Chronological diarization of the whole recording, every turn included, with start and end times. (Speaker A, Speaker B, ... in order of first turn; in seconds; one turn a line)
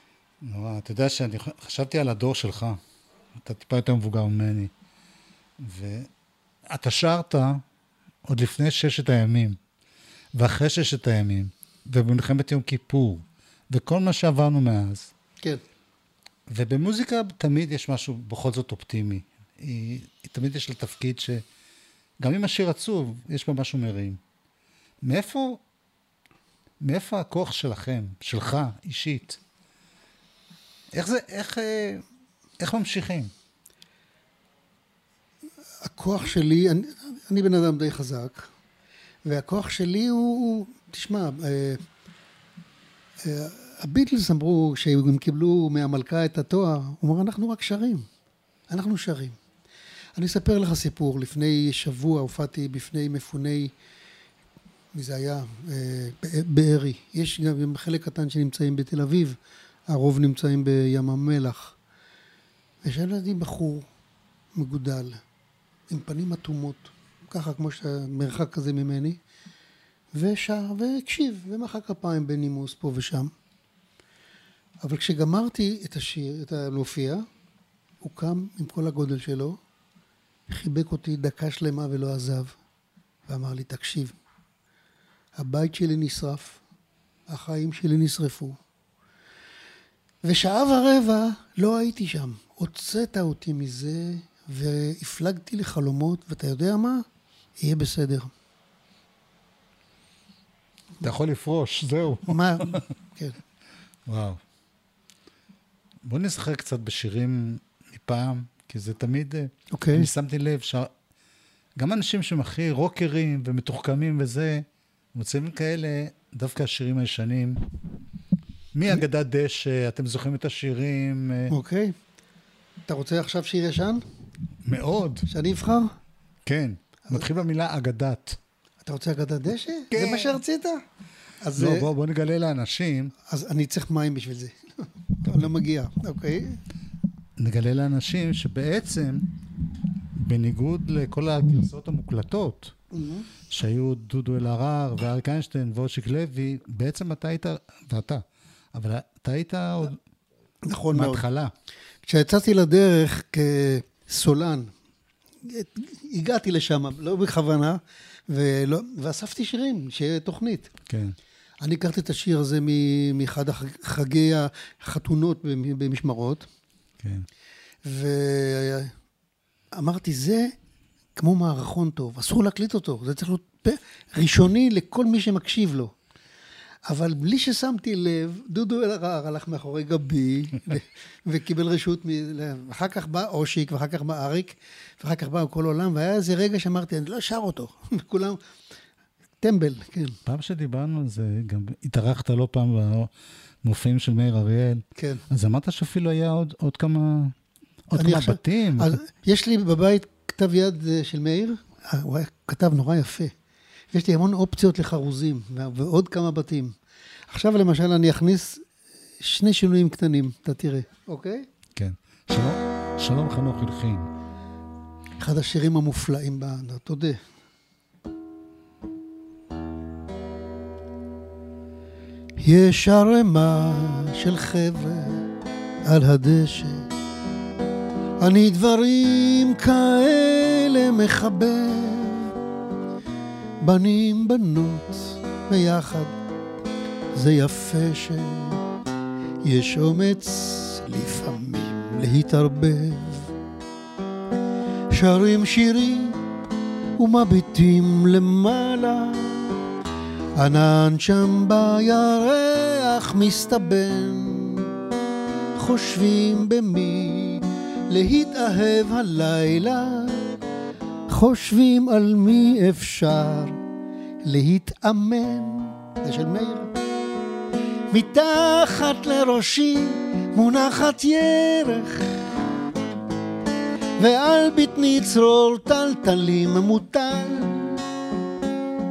Speaker A: 0.4-2.8
Speaker A: 3.4-4.7
Speaker A: 5.6-6.1
Speaker A: 6.7-7.6
Speaker A: 8.3-9.6
Speaker A: 10.4-15.1
Speaker A: 16.5-21.4
Speaker A: 22.2-24.2
Speaker A: 25.0-25.6
Speaker A: 26.8-29.4
Speaker A: 30.9-32.0
Speaker A: 32.6-33.3
Speaker B: 35.8-38.5
Speaker B: 39.2-41.8
Speaker B: 43.2-48.0
Speaker B: 48.7-49.4
Speaker B: 50.2-53.7
Speaker B: 54.9-59.4
Speaker B: 59.9-61.8
Speaker B: 62.8-63.9
Speaker B: 64.5-65.2
Speaker B: 65.9-69.2
Speaker B: 70.1-73.3
Speaker B: 74.8-77.2
Speaker B: 78.0-79.6
Speaker B: 80.5-82.5
Speaker B: 83.3-84.1
Speaker B: 85.4-86.6
Speaker B: 87.3-88.6
Speaker B: 90.2-97.0
Speaker B: 97.6-98.3
Speaker A: 101.0-102.8
Speaker B: 102.3-103.4
Speaker A: 104.1-104.4
Speaker A: 106.0-110.9
Speaker B: 109.7-110.1
Speaker A: 111.8-117.6
Speaker A: 118.7-121.5
Speaker B: 121.5-122.0
Speaker B: 122.9-124.0
Speaker A: 124.7-125.3
Speaker B: 125.3-125.9
Speaker A: 126.4-128.4
Speaker B: 128.8-130.8
Speaker A: 129.9-130.3
Speaker B: 131.4-131.9
Speaker A: 131.6-133.1
Speaker B: 133.3-136.6
Speaker A: 135.2-135.5
Speaker A: 137.4-139.3
Speaker A: 140.2-142.7
Speaker B: 142.9-143.3
Speaker A: 143.5-150.0
Speaker B: 150.6-151.2
Speaker A: 150.9-151.5
Speaker B: 152.1-154.7
Speaker B: 155.4-160.7
Speaker A: 160.9-161.2
Speaker B: 161.6-166.4
Speaker A: 167.0-167.2
Speaker B: 167.8-168.9
Speaker B: 169.8-170.5
Speaker B: 171.2-175.9
Speaker B: 176.9-188.4
Speaker B: 189.4-190.2
Speaker A: 190.2-193.1
Speaker A: 193.6-197.3
Speaker B: 194.9-195.2
Speaker A: 197.9-199.0
Speaker B: 197.9-203.3
Speaker B: 203.9-206.7
Speaker B: 207.3-208.6
Speaker B: 209.2-211.4
Speaker A: 211.8-214.1
Speaker B: 215.2-217.2
Speaker B: 222.4-225.2
Speaker B: 225.9-226.8
Speaker B: 228.2-232.3
Speaker B: 233.6-236.1
Speaker B: 237.1-238.6
Speaker B: 239.4-243.3
Speaker B: 244.9-246.2
Speaker B: 247.0-249.6
Speaker B: 250.4-254.7
Speaker B: 255.6-260.2
Speaker B: 261.1-263.6
Speaker B: 264.2-266.7
Speaker B: 267.9-272.2
Speaker B: 274.0-277.8